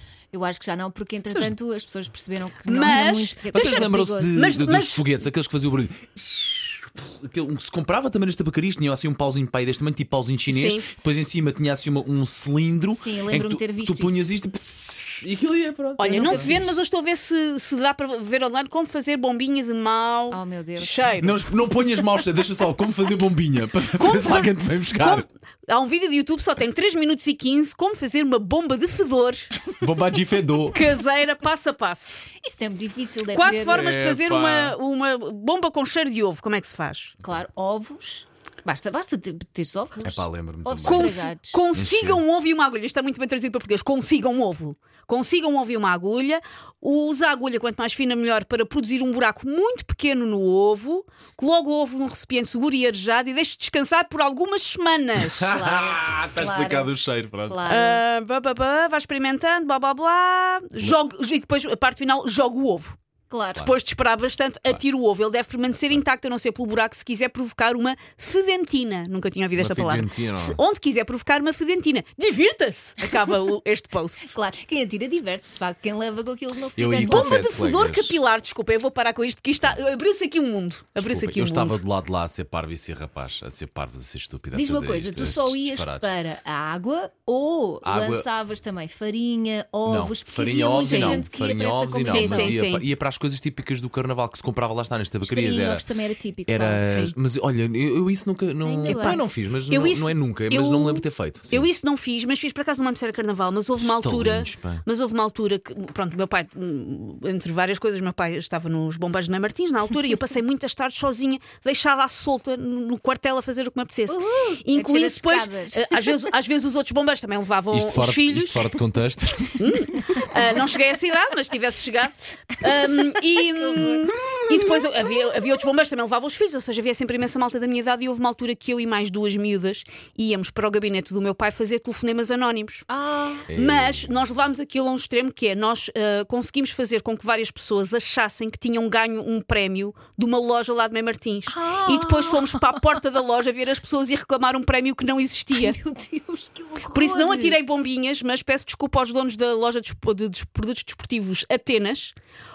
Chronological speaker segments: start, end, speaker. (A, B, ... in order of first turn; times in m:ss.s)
0:00.3-0:04.6 A
0:01.3-0:01.5 B
0:02.6-0:05.1 C
0:03.5-0:16.8 B
0:10.5-0:10.9 C
0:12.9-0:14.3 A
0:16.0-0:21.4 C
0:16.1-0:16.8 A
0:20.3-0:21.1 A
0:21.2-0:25.2 B
0:23.9-0:29.5 C
0:29.8-0:30.8 B
0:30.7-0:32.2 C
0:32.4-0:33.8 A
0:33.3-0:37.1 C
0:33.4-0:34.8 B
0:37.2-0:41.6 A
0:40.0-0:41.2 B
0:40.8-0:55.5 C
0:41.7-0:42.2 B
0:55.2-0:57.6 B
0:55.5-0:56.9 A
0:57.5-0:58.0 A
0:57.6-1:03.0 C
1:03.3-1:03.7 A
1:03.6-1:14.3 C
1:09.5-1:10.6 B
1:14.2-1:17.6 A
1:16.8-1:18.2 B
1:17.0-1:21.8 C
1:21.0-1:26.1 B
1:24.5-1:32.6 A
1:27.8-1:28.3 B
1:29.8-1:35.9 B
1:30.8-1:31.2 C
1:32.0-1:32.8 C
1:35.2-1:36.8 A
1:36.5-1:41.7 B
1:36.8-1:37.1 C
1:38.6-1:39.2 A
1:38.8-1:58.7 C
1:43.7-1:44.8 B
1:54.1-1:56.2 A
1:57.7-1:59.7 B
1:59.6-2:12.8 C
2:03.5-2:04.7 A
2:12.9-2:13.5 A
2:13.5-2:14.1 B
2:13.5-2:25.8 C
2:21.5-2:23.0 A
2:25.5-2:27.6 A
2:26.9-2:32.1 C